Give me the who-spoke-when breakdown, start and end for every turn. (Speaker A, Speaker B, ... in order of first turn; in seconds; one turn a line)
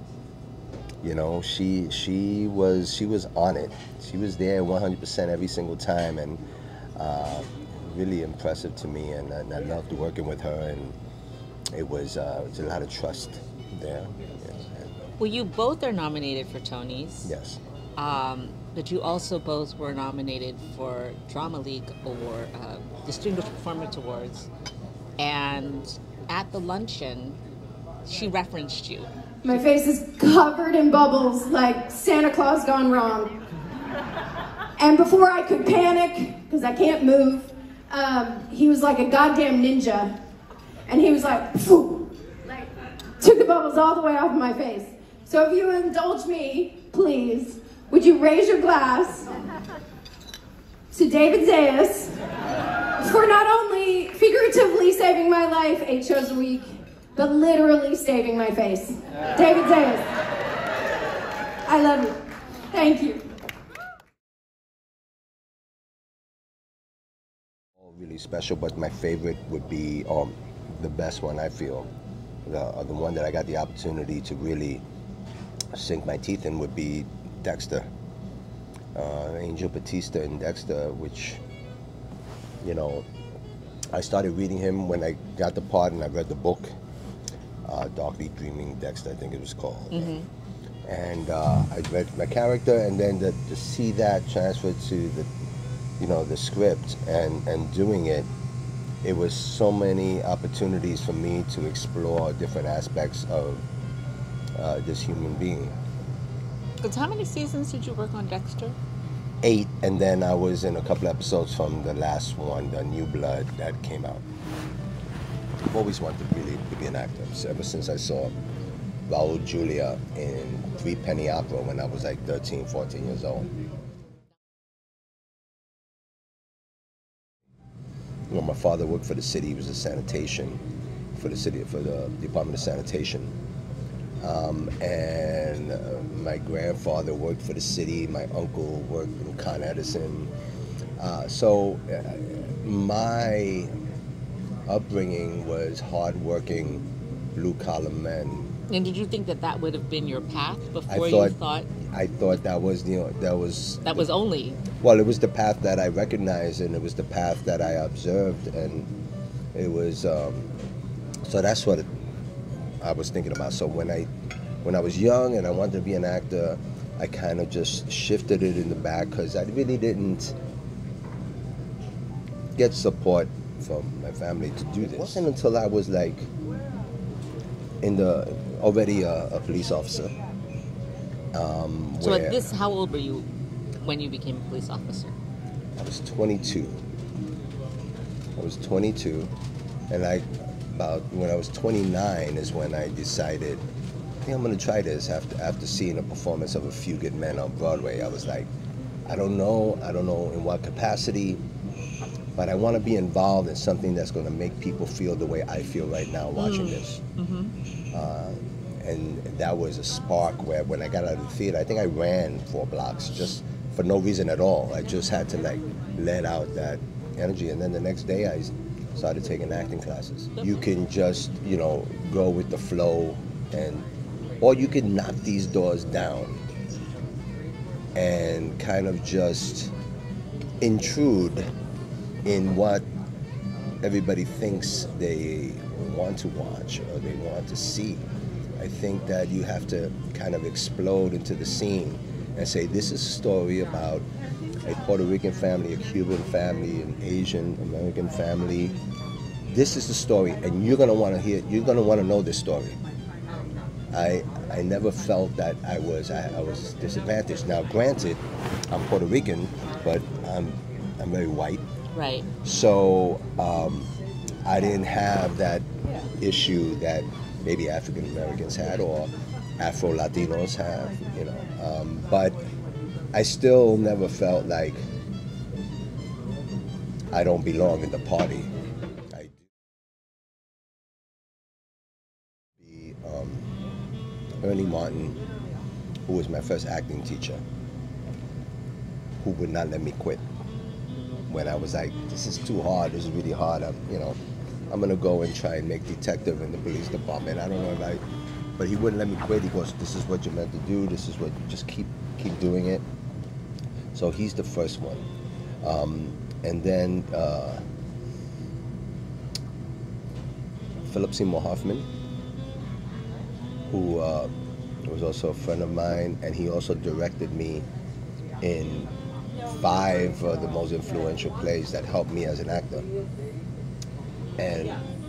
Speaker A: 1.0-6.4
Speaker A: 6.9-10.9
Speaker A: 11.7-15.0
Speaker B: 15.2-17.3
Speaker A: 17.2-17.6
Speaker B: 18.0-24.5
Speaker B: 25.2-27.4
Speaker B: 28.1-29.1
Speaker C: 29.4-33.4
Speaker C: 34.8-40.2
Speaker C: 40.9-42.6
Speaker C: 43.2-49.3
Speaker C: 50.9-52.1
Speaker C: 53.0-60.1
Speaker C: 61.7-63.3
Speaker A: 67.8-71.9
Speaker A: 72.4-74.8
Speaker A: 75.7-77.9
Speaker A: 78.9-81.4
Speaker A: 82.6-83.1
Speaker A: 83.9-86.7
Speaker A: 87.6-90.1
Speaker B: 89.9-90.3
Speaker A: 90.8-95.3
Speaker A: 96.0-98.3
Speaker A: 99.0-103.7
Speaker A: 104.5-105.8
Speaker B: 106.8-108.8
Speaker A: 109.4-114.2
Speaker A: 115.7-118.3
Speaker A: 119.1-123.5
Speaker A: 128.3-133.3
Speaker A: 134.2-140.3
Speaker A: 141.0-143.7
Speaker A: 144.7-148.5
Speaker B: 148.7-151.7
Speaker A: 150.9-154.1
Speaker B: 153.8-154.6
Speaker A: 154.7-158.9
Speaker A: 159.5-160.5
Speaker A: 161.2-161.9
Speaker A: 162.8-164.1
Speaker A: 164.6-170.3
Speaker A: 172.6-176.3
Speaker A: 177.8-180.2
Speaker A: 181.3-182.5
Speaker B: 182.0-183.3
Speaker B: 183.8-185.2
Speaker A: 185.8-186.9
Speaker A: 188.4-189.3
Speaker A: 189.9-193.6
Speaker A: 194.2-198.5
Speaker A: 199.1-201.4
Speaker A: 202.3-207.0
Speaker B: 206.3-207.5
Speaker A: 207.9-223.9
Speaker A: 224.4-226.4
Speaker A: 227.9-229.7
Speaker A: 230.6-231.5
Speaker A: 232.2-232.9
Speaker A: 233.8-238.0
Speaker A: 238.6-244.1
Speaker A: 244.6-248.8
Speaker A: 249.5-252.8
Speaker A: 253.9-261.6
Speaker B: 261.9-262.3
Speaker A: 262.4-263.9
Speaker A: 264.4-265.7
Speaker A: 266.2-272.4
Speaker A: 273.1-274.9
Speaker A: 277.1-278.5
Speaker A: 279.1-279.4
Speaker A: 282.6-283.5
Speaker A: 284.4-285.2
Speaker A: 286.1-287.4
Speaker A: 289.2-290.2
Speaker A: 291.3-294.2
Speaker A: 294.7-298.0
Speaker A: 298.6-302.8
Speaker A: 303.9-305.1
Speaker A: 305.6-307.6
Speaker A: 310.8-311.9
Speaker A: 313.7-314.3
Speaker A: 314.8-317.6
Speaker A: 318.4-318.9
Speaker A: 319.5-322.9
Speaker A: 324.4-324.8